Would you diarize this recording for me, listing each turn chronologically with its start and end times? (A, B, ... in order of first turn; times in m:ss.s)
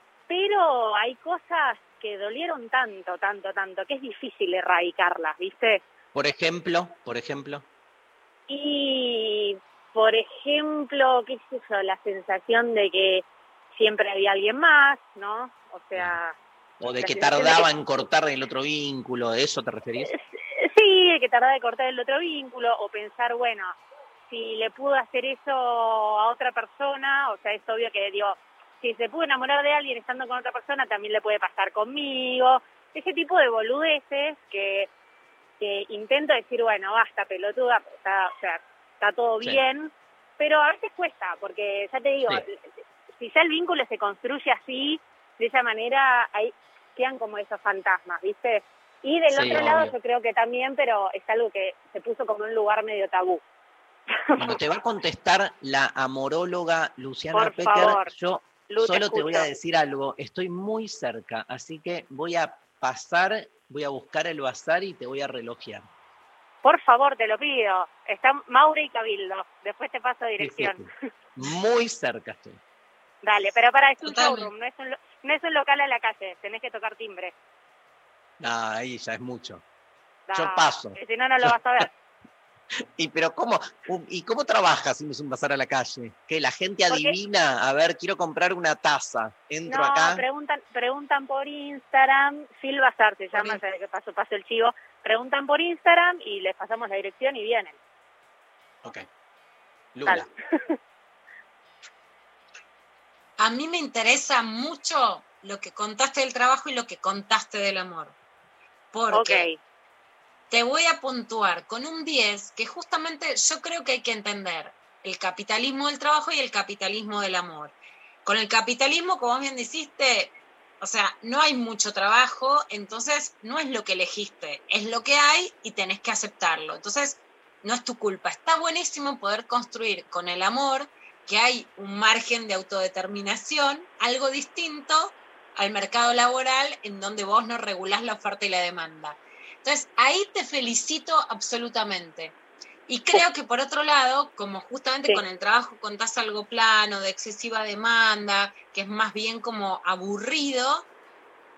0:00.3-0:05.8 A
0:06.1-0:07.6 B
0:08.5-0:13.2 A
0:13.7-0:16.3 A
0:16.8-0:20.1 B
0:16.9-0:17.7 A
0:20.1-0:23.7 A
0:24.3-0:34.9 A
0:35.6-0:42.6 A
0:43.2-0:53.4 A
0:49.3-0:49.9 B
0:54.3-0:54.6 A
0:54.4-1:05.8 B
0:57.3-0:58.1 A
0:58.7-0:59.4 A
1:06.6-1:10.8 A
1:10.4-1:12.6 B
1:13.2-1:17.3 A
1:14.0-1:14.5 C
1:18.4-1:19.6 B
1:20.3-1:21.9 A
1:20.3-1:21.8 B
1:23.0-1:30.2 B
1:29.7-1:37.7 A
1:39.9-1:40.3 B
1:43.4-1:48.2 C
1:48.9-1:49.4 C
1:49.1-1:49.6 A
1:50.5-1:57.7 C
1:58.2-2:22.3 C
2:22.9-2:30.8 C